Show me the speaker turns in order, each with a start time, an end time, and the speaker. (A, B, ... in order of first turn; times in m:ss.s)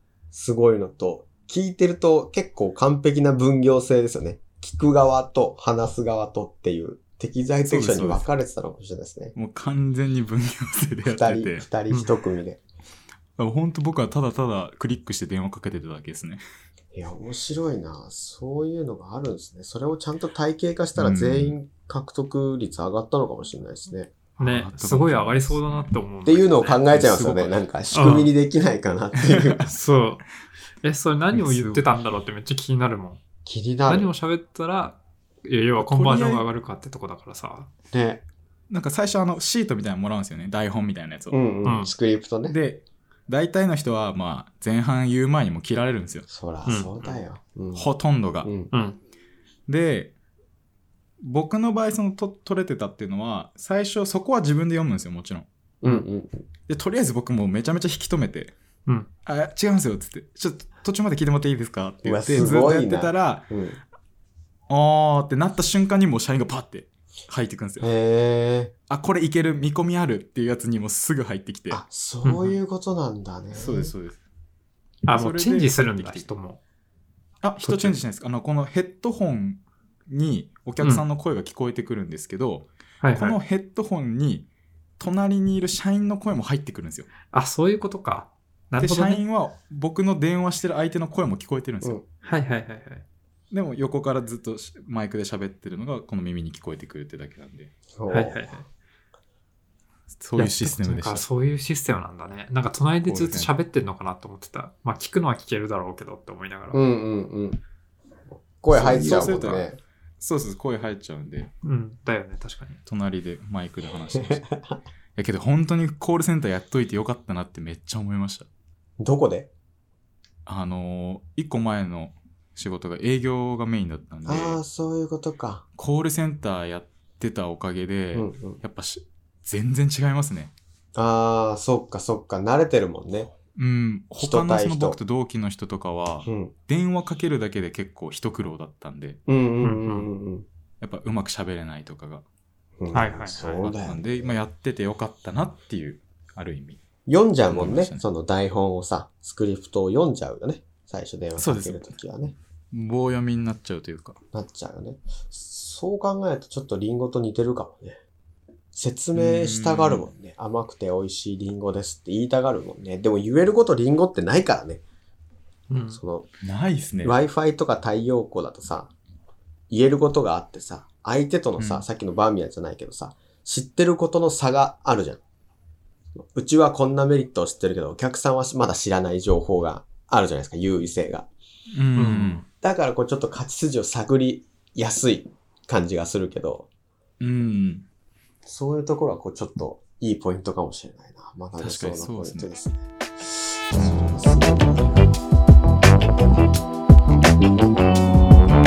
0:00.3-0:09.3 A
0:07.7-0:08.3 B
0:09.3-0:11.6 B
0:11.0-0:12.6 A
0:13.4-0:16.4 B
0:16.9-0:24.1 A
0:21.0-0:21.6 B
0:24.4-0:25.9 B
0:24.4-0:26.9 C
0:26.2-0:29.7 A
0:26.9-0:27.6 B
0:27.9-0:28.3 C
0:29.2-0:29.6 B
0:29.6-0:30.2 C
0:30.8-0:33.2 C
0:31.3-0:31.8 B
0:33.4-0:34.1 A
0:33.9-0:37.7 C
0:35.8-0:36.4 B
0:37.9-0:38.2 A
0:38.7-0:41.4 B
0:41.3-0:42.6 A
0:41.6-0:41.9 C
0:42.5-0:46.3 B
0:46.3-0:47.9 A
0:46.6-0:47.2 C
0:47.7-0:48.5 B
0:48.4-0:48.7 A
0:48.7-0:49.0 C
0:49.7-0:50.1 B
0:51.2-0:55.4 B
0:55.8-0:56.5 A
0:56.7-0:58.5 B
0:59.2-1:03.5 B
1:02.0-1:03.8 A
1:04.7-1:07.9 B
1:07.8-1:08.7 A
1:08.9-1:11.8 B
1:11.7-1:13.9 A
1:12.2-1:12.5 C
1:13.5-1:14.2 B
1:15.0-1:16.3 B
1:15.0-1:16.6 C
1:17.4-1:24.5 B
1:17.6-1:18.0 C
1:23.0-1:23.4 C
1:25.0-1:27.1 B
1:27.3-1:29.2 C
1:28.8-1:32.0 B
1:32.2-1:33.0 C
1:33.5-1:37.7 B
1:38.0-1:38.6 A
1:38.1-1:38.6 C
1:40.2-1:41.2 B
1:40.4-1:46.8 C
1:43.0-1:43.5 B
1:46.7-1:47.6 A
1:48.4-1:49.8 A
1:48.7-1:49.6 B
1:48.8-1:49.6 C
1:50.2-1:51.5 B
1:51.6-1:52.8 C
1:52.8-1:54.6 B
1:54.1-1:54.8 A
1:55.2-1:58.5 B
1:59.0-1:59.5 A
2:00.4-2:04.6 B
2:04.2-2:05.6 A
2:05.8-2:10.5 B
2:08.1-2:08.6 A
2:10.9-2:13.3 A
2:13.5-2:19.2 B
2:14.2-2:15.0 A
2:16.2-2:16.5 A
2:19.3-2:20.4 A
2:19.6-2:20.0 C
2:20.8-2:22.2 B
2:22.8-2:24.3 A
2:22.9-2:23.7 C
2:23.6-2:26.8 B
2:27.0-2:32.3 A
2:27.5-2:28.0 B
2:31.4-2:32.0 B
2:32.7-2:34.2 B
2:34.3-2:38.0 A
2:38.7-2:44.8 A
2:39.1-2:40.0 B
2:45.7-2:46.0 C
2:45.9-2:46.3 A
2:46.4-2:47.2 B
2:47.0-2:48.9 A
2:49.7-2:55.2 A
2:51.6-2:51.8 B
2:56.2-3:01.3 A
3:01.7-3:02.4 B
3:02.0-3:02.4 C
3:02.6-3:06.7 A
3:07.2-3:07.8 B
3:08.4-3:14.9 A
3:11.6-3:12.5 B